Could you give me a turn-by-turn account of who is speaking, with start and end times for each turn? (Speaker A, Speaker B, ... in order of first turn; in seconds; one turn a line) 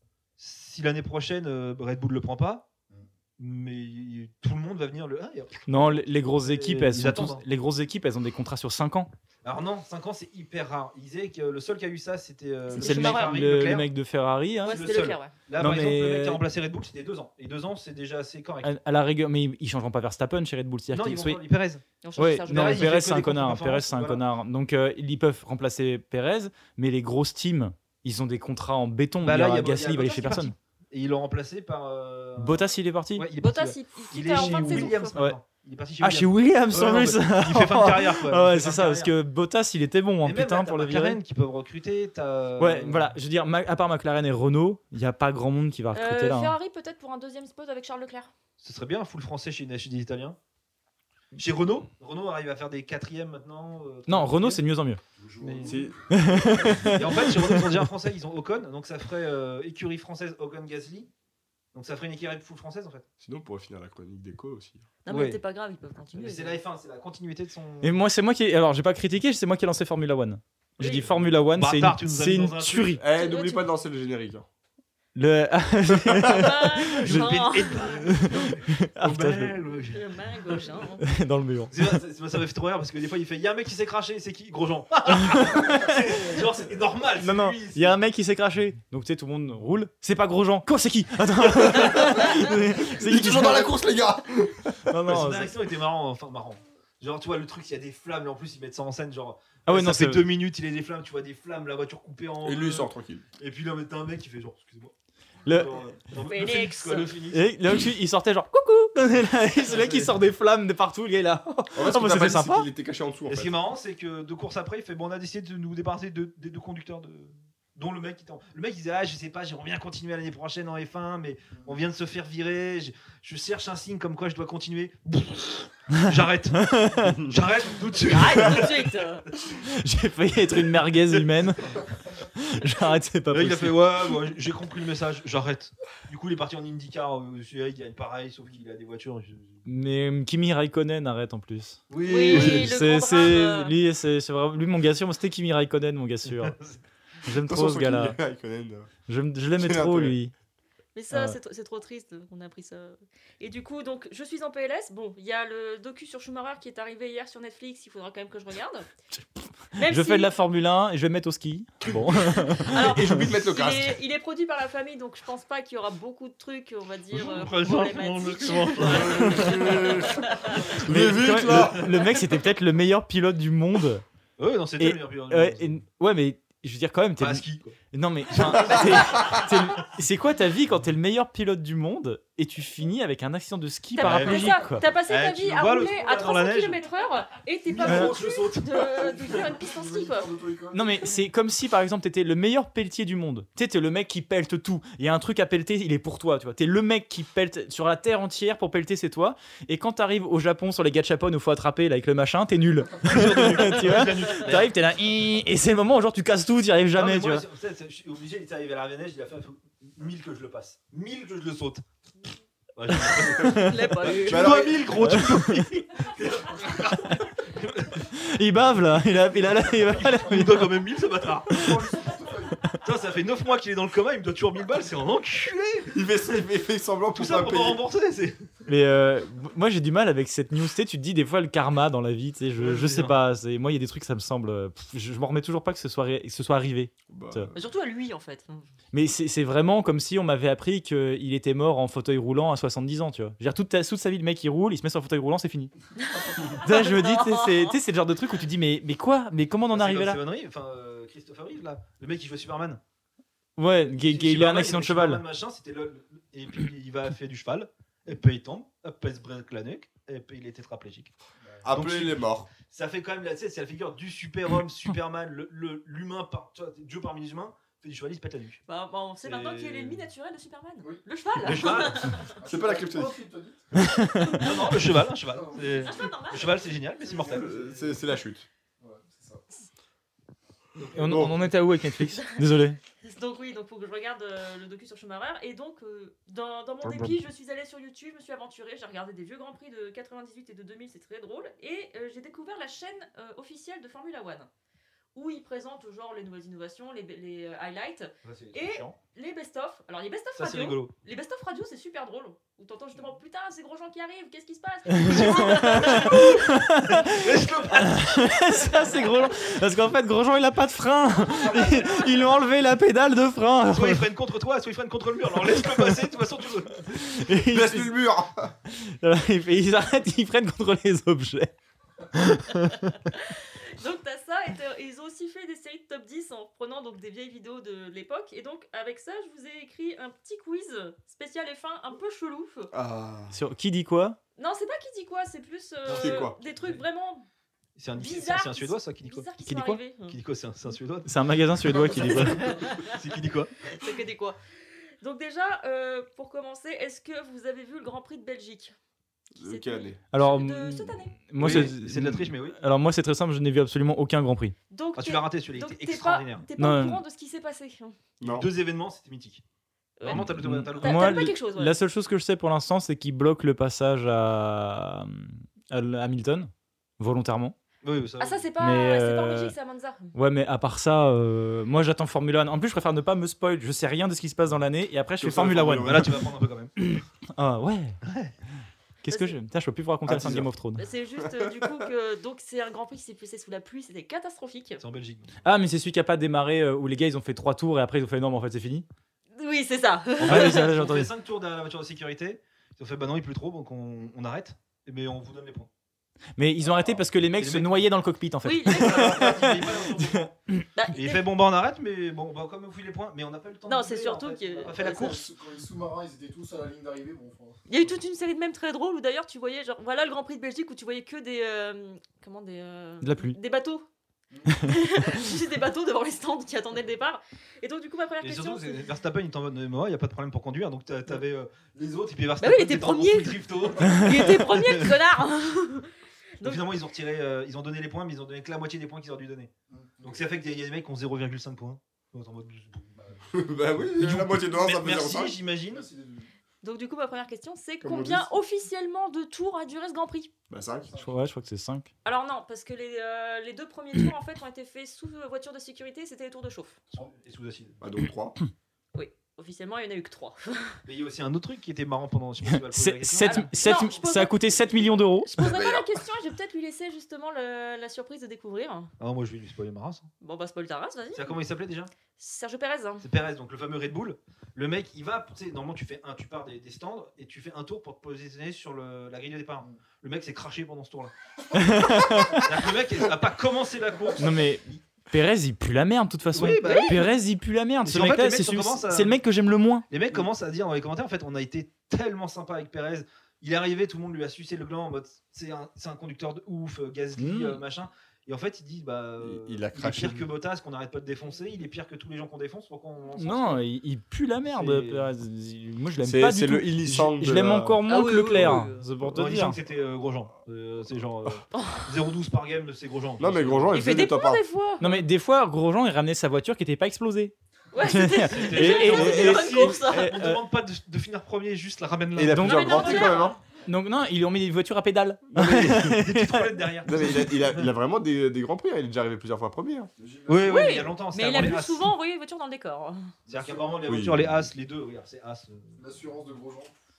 Speaker A: 0.4-2.7
Speaker A: 3.4-7.4
Speaker B: 5.7-9.1
Speaker A: 9.4-13.9
Speaker C: 12.7-13.4
Speaker B: 12.7-14.8
Speaker C: 14.6-15.4
Speaker A: 14.7-18.7
Speaker B: 15.6-16.4
Speaker B: 18.6-21.4
Speaker A: 20.9-21.8
Speaker C: 22.0-22.9
Speaker B: 22.2-30.6
Speaker A: 22.4-24.2
Speaker A: 29.2-32.6
Speaker B: 32.4-33.3
Speaker A: 33.2-39.1
Speaker C: 33.4-35.2
Speaker B: 34.4-35.4
Speaker B: 36.0-41.2
Speaker A: 40.2-43.1
Speaker B: 42.6-46.5
Speaker C: 45.9-48.3
Speaker A: 48.6-50.4
Speaker A: 51.4-54.6
Speaker B: 54.1-55.0
Speaker D: 55.3-55.8
Speaker A: 55.4-55.8
Speaker E: 55.6-56.0
Speaker B: 56.1-57.9
Speaker A: 56.9-61.1
Speaker A: 61.7-63.0
Speaker E: 63.2-64.9
Speaker C: 65.1-66.6
Speaker A: 65.1-65.4
Speaker A: 66.1-68.0
Speaker B: 67.8-73.0
Speaker C: 70.8-71.1
Speaker A: 70.8-73.0
Speaker E: 73.0-74.5
Speaker C: 73.1-73.7
Speaker B: 75.2-77.3
Speaker C: 76.3-78.3
Speaker A: 76.9-80.7
Speaker B: 78.1-79.6
Speaker C: 79.9-81.1
Speaker B: 81.0-81.9
Speaker A: 81.7-88.0
Speaker B: 85.2-86.0
Speaker B: 87.2-93.8
Speaker E: 91.7-92.4
Speaker E: 92.9-94.9
Speaker B: 94.9-95.5
Speaker A: 95.1-104.9
Speaker B: 99.7-100.3
Speaker E: 102.4-103.2
Speaker B: 105.5-105.8
Speaker A: 105.5-107.5
Speaker C: 106.2-107.2
Speaker B: 107.3-112.7
Speaker A: 109.6-110.1
Speaker E: 111.8-113.6
Speaker A: 113.3-129.0
Speaker B: 126.6-127.2
Speaker C: 128.1-129.2
Speaker B: 129.6-131.6
Speaker B: 132.3-133.8
Speaker A: 133.3-139.6
Speaker B: 139.7-146.6
Speaker A: 141.9-142.7
Speaker C: 142.0-143.8
Speaker A: 146.4-146.8
Speaker B: 147.2-148.2
Speaker E: 147.4-148.9
Speaker B: 149.1-150.3
Speaker E: 149.6-150.2
Speaker C: 150.9-158.9
Speaker B: 151.1-151.4
Speaker B: 159.1-163.0
Speaker C: 159.8-160.3
Speaker C: 162.7-170.8
Speaker E: 162.7-164.0
Speaker A: 167.1-169.8
Speaker E: 168.8-171.9
Speaker B: 170.8-174.0
Speaker A: 171.6-172.0
Speaker A: 174.4-175.8
Speaker B: 174.8-184.8
Speaker A: 177.2-177.8
Speaker A: 178.3-179.4
Speaker C: 184.0-190.3
Speaker A: 184.0-186.8
Speaker A: 187.7-188.8
Speaker B: 187.8-188.1
Speaker D: 188.8-191.0
Speaker B: 190.7-207.4
Speaker A: 203.0-204.7
Speaker A: 206.9-211.8
Speaker A: 212.8-218.1
Speaker B: 213.0-213.9
Speaker C: 213.5-214.7
Speaker E: 214.1-215.2
Speaker B: 215.0-215.7
Speaker B: 218.2-220.8
Speaker A: 219.8-221.9
Speaker B: 221.5-221.8
Speaker D: 221.6-222.6
Speaker A: 222.8-225.9
Speaker E: 225.9-227.8
Speaker A: 227.1-228.4
Speaker B: 228.7-237.5
Speaker A: 232.6-233.2
Speaker E: 237.1-237.6
Speaker C: 237.5-238.7
Speaker B: 238.9-245.7
Speaker C: 246.0-247.7
Speaker B: 246.6-250.2
Speaker A: 249.7-252.8
Speaker B: 253.6-255.2
Speaker A: 254.0-261.1
Speaker E: 261.6-262.5
Speaker A: 261.7-268.6
Speaker C: 268.7-272.3
Speaker A: 269.2-270.1
Speaker A: 271.4-272.2
Speaker D: 272.2-273.7
Speaker E: 272.4-273.2
Speaker B: 273.8-274.4
Speaker A: 274.3-277.7
Speaker D: 275.3-275.9
Speaker C: 275.8-277.1
Speaker D: 277.2-277.9
Speaker E: 277.2-278.5
Speaker D: 278.8-279.4
Speaker A: 280.8-281.3
Speaker B: 280.9-282.8
Speaker E: 281.1-281.4
Speaker C: 283.0-294.5
Speaker E: 286.8-287.1
Speaker C: 295.1-306.5
Speaker A: 298.2-299.0
Speaker A: 300.4-300.9
Speaker A: 305.0-308.5
Speaker B: 305.0-307.1
Speaker B: 307.8-314.1
Speaker A: 311.5-311.8
Speaker A: 313.7-316.9
Speaker B: 316.9-317.9
Speaker E: 317.5-318.5
Speaker B: 318.7-321.5
Speaker B: 322.1-322.8
Speaker C: 323.1-332.7
Speaker E: 332.7-333.4
Speaker B: 333.3-334.2
Speaker C: 334.4-337.3
Speaker A: 335.9-336.8
Speaker E: 335.9-336.4
Speaker A: 337.8-339.3
Speaker C: 337.9-340.2
Speaker B: 339.4-339.8
Speaker A: 340.1-341.1
Speaker B: 341.1-342.5
Speaker A: 341.7-343.5
Speaker C: 342.5-342.9
Speaker C: 343.6-344.4
Speaker C: 345.0-348.7
Speaker E: 349.4-350.0
Speaker C: 349.4-351.3
Speaker B: 350.1-354.6
Speaker A: 351.4-352.6
Speaker C: 354.7-358.0
Speaker A: 355.0-356.5
Speaker B: 356.6-357.0
Speaker E: 358.2-358.5
Speaker A: 358.3-359.4
Speaker C: 360.0-361.8
Speaker A: 360.0-361.4
Speaker B: 360.1-367.6
Speaker A: 367.8-368.5
Speaker C: 368.2-370.1
Speaker B: 368.6-369.6
Speaker B: 370.1-376.1
Speaker E: 375.2-376.1
Speaker A: 375.3-376.7
Speaker B: 376.8-378.0
Speaker A: 378.0-378.3
Speaker B: 379.0-380.8
Speaker C: 379.1-379.4
Speaker E: 380.1-380.5
Speaker C: 380.8-384.8
Speaker E: 381.2-381.9
Speaker A: 384.8-385.3
Speaker B: 385.4-388.9
Speaker C: 389.4-390.7
Speaker B: 390.2-391.1
Speaker A: 390.2-395.7
Speaker B: 396.4-400.6
Speaker A: 397.4-397.8
Speaker C: 398.4-399.7
Speaker A: 398.7-400.4
Speaker C: 400.8-401.2
Speaker A: 400.9-405.2
Speaker C: 403.7-405.2
Speaker D: 404.9-407.9
Speaker C: 407.7-413.9
Speaker B: 413.0-413.4
Speaker D: 414.3-414.6
Speaker C: 414.6-418.9
Speaker A: 418.2-424.9
Speaker C: 422.4-426.8
Speaker A: 426.4-429.5
Speaker D: 429.7-430.2
Speaker A: 430.0-432.9
Speaker D: 433.0-433.2
Speaker E: 433.3-435.4
Speaker A: 434.0-435.9
Speaker D: 435.7-436.3
Speaker C: 436.6-440.3
Speaker E: 437.8-438.4
Speaker E: 440.5-440.9
Speaker B: 440.9-441.9
Speaker C: 442.1-446.8
Speaker A: 446.9-447.8
Speaker E: 447.8-448.4
Speaker C: 448.9-450.8
Speaker A: 450.9-453.8
Speaker B: 452.4-455.3
Speaker C: 453.2-454.5
Speaker A: 454.4-455.0
Speaker C: 455.2-458.9
Speaker E: 455.4-455.9
Speaker A: 459.0-460.1
Speaker C: 460.2-461.4
Speaker A: 461.1-461.9
Speaker C: 462.1-463.1
Speaker A: 463.0-471.1
Speaker B: 471.5-472.6
Speaker A: 472.4-474.4
Speaker B: 474.2-479.9
Speaker A: 476.3-477.0
Speaker C: 476.6-477.0
Speaker A: 477.8-479.2
Speaker A: 479.9-493.6
Speaker B: 487.2-487.6
Speaker E: 489.2-490.3
Speaker B: 493.2-499.6
Speaker A: 494.5-495.1
Speaker E: 496.1-497.8
Speaker C: 497.9-498.8
Speaker E: 498.3-498.7
Speaker A: 499.1-503.9
Speaker C: 501.5-501.9
Speaker E: 503.2-504.4
Speaker C: 503.7-505.0
Speaker B: 504.8-510.4
Speaker C: 507.7-510.1
Speaker A: 508.2-513.1
Speaker E: 512.2-513.4
Speaker B: 512.3-513.1
Speaker C: 512.4-513.4
Speaker B: 513.6-516.6
Speaker A: 515.4-517.7
Speaker E: 516.9-519.9
Speaker D: 520.0-520.8
Speaker A: 520.3-521.9
Speaker C: 520.4-523.1
Speaker D: 523.3-523.9
Speaker A: 523.3-525.8
Speaker E: 523.9-524.4
Speaker D: 525.8-526.7